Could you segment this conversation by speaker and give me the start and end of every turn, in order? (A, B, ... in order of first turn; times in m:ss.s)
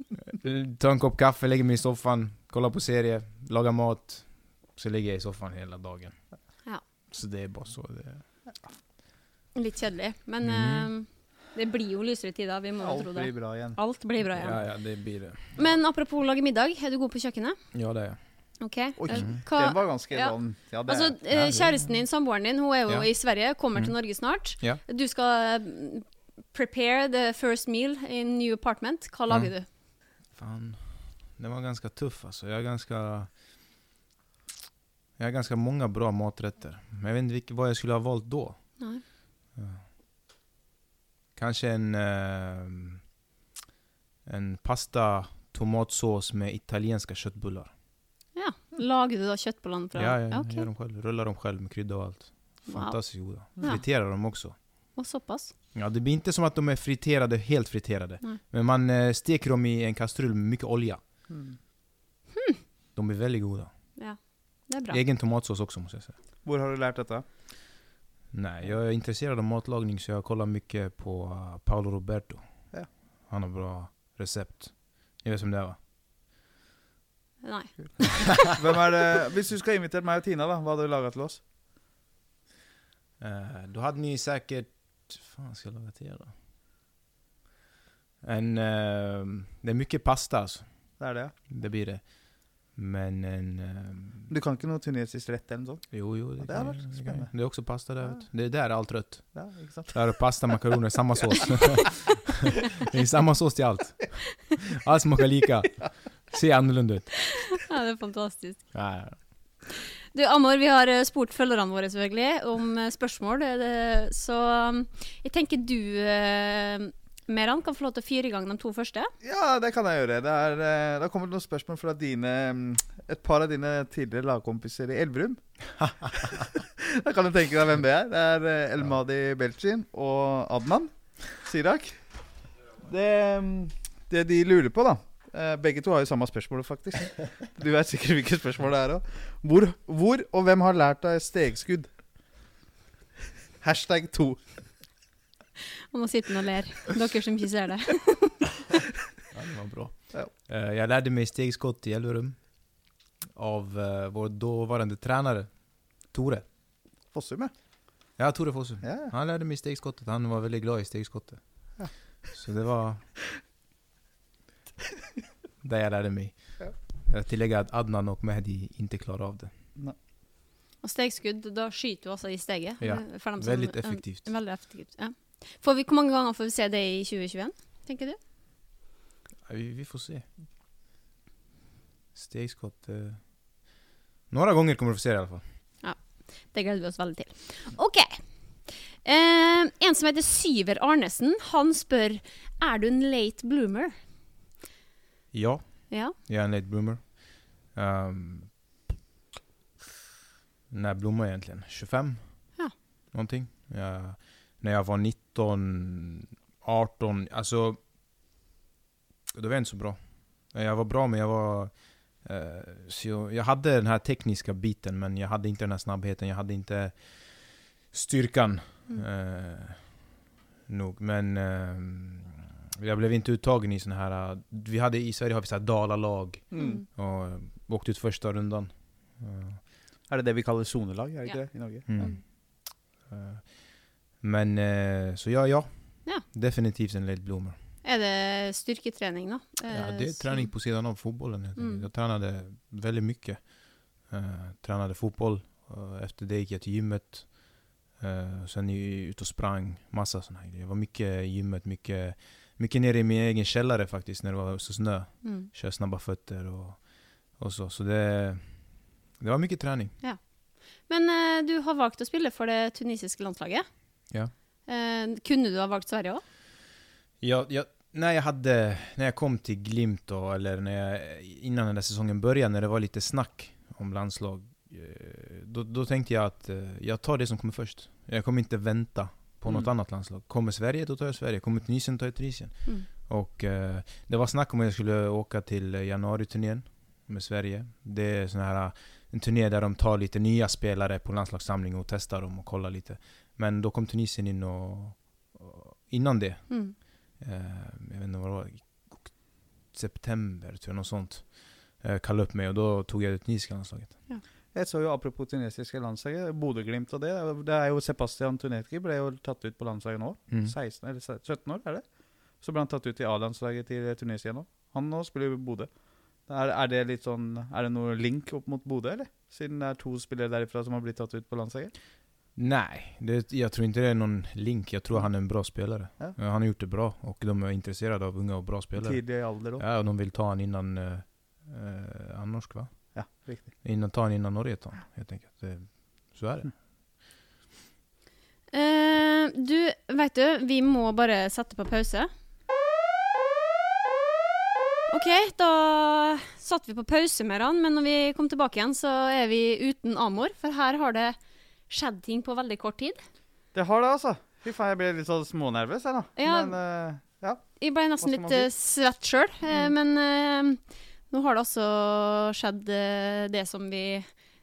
0:00.3-0:06.2 A
0:07.1-0:08.3 A
0:09.6-0:14.9 B
0:10.4-0:10.9 A
0:12.8-0:13.8 C
0:14.3-0:15.6 A
0:15.6-0:17.6 B
0:17.7-0:18.2 A
0:18.6-0:20.4 B
0:19.0-0:21.2 C
0:19.1-0:19.4 A
0:20.9-0:29.7 B
0:21.3-0:22.0 A
0:22.9-0:24.8 A
0:30.3-0:33.3 A
0:35.2-0:38.6 A
0:39.6-0:39.8 A
0:41.4-0:43.0 A
0:44.3-0:47.7 A
0:48.4-0:50.7 B
0:50.0-0:54.6 A
0:52.7-0:53.8 B
0:55.0-0:55.5 B
0:55.7-1:01.0 A
1:01.3-1:01.6 C
1:02.4-1:02.6 B
1:03.0-1:03.7 A
1:04.0-1:05.0 B
1:04.9-1:06.2 A
1:06.4-1:07.2 C
1:08.3-1:15.8 A
1:17.4-1:18.3 B
1:18.5-1:21.4 C
1:23.2-1:26.3 A
1:28.2-1:34.3 A
1:31.0-1:31.3 C
1:34.3-1:37.8 C
1:35.9-1:47.3 A
1:39.3-1:40.0 C
1:47.5-1:48.7 B
1:48.7-1:49.2 A
1:49.7-1:59.1 B
1:59.2-2:05.4 C
2:05.8-2:06.1 A
2:06.1-2:12.0 C
2:12.8-2:21.9 C
2:23.6-2:24.4 C
2:25.9-2:28.5 B
2:29.3-2:36.4 A
2:37.1-2:37.5 C
2:38.2-2:41.6 A
2:38.8-2:39.1 C
2:42.3-2:43.1 A
2:45.6-2:49.5 A
2:50.8-2:58.2 B
2:52.8-2:54.3 A
2:59.5-3:00.3 A
3:02.2-3:03.6 A
3:04.3-3:05.4 A
3:05.8-3:13.9 B
3:15.3-3:18.6 A
3:20.7-3:22.5 A
3:23.1-3:27.8 A
3:29.3-3:40.0 A
3:40.7-3:49.6 A
3:46.5-3:46.8 C
3:46.5-3:46.9 B
3:50.1-3:51.9 C
3:51.9-3:57.6 A
3:51.9-3:52.2 B
3:57.8-4:00.5 B
3:59.7-4:19.9 A
4:01.6-4:01.9 B
4:15.2-4:15.5 B
4:20.0-4:23.7 B
4:24.7-4:26.2 B
4:27.2-5:04.0 A
4:56.5-4:56.8 B
5:04.5-5:21.7 C
5:10.3-5:10.5 A
5:22.4-5:36.6 A
5:28.8-5:29.6 C
5:32.9-5:33.5 C
5:38.5-5:42.1 B
5:44.9-5:51.1 B
5:51.7-5:53.0 B
5:53.5-5:58.5 C
5:56.2-5:56.6 B
5:57.6-6:04.1 B